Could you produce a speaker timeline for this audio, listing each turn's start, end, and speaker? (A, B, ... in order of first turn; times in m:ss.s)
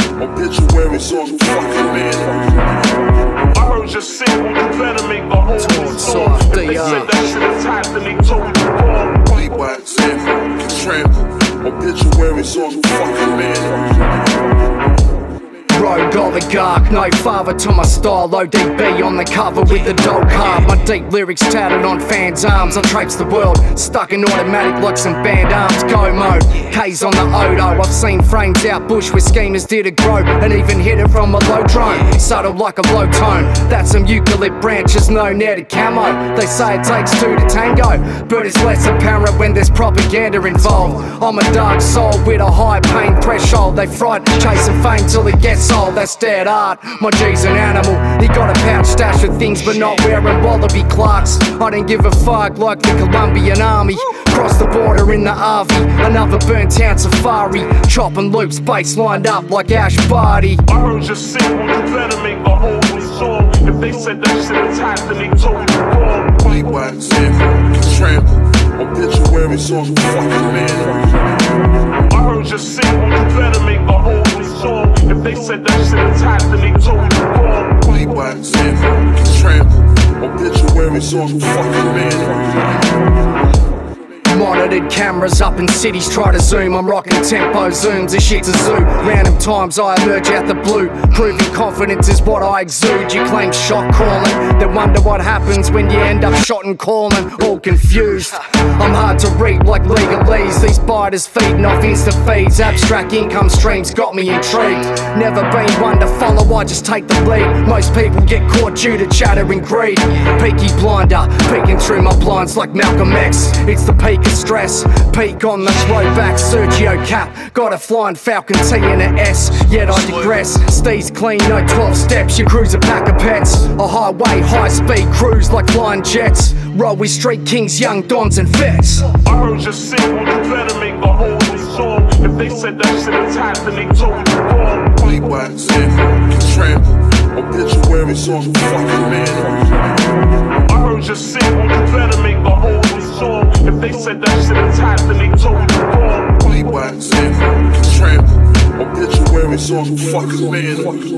0:00.3-0:02.0 A
0:03.5-0:10.4 B
0:05.6-0:07.3 C
0:11.7-0:13.4 A
0:15.7-1:00.6 C
1:00.7-1:07.9 B
1:09.1-1:10.1 A
1:12.1-1:19.3 B
1:20.6-1:21.7 A
1:24.2-2:09.1 C
2:09.1-2:16.7 B
2:18.0-2:18.5 A
2:20.5-2:27.8 B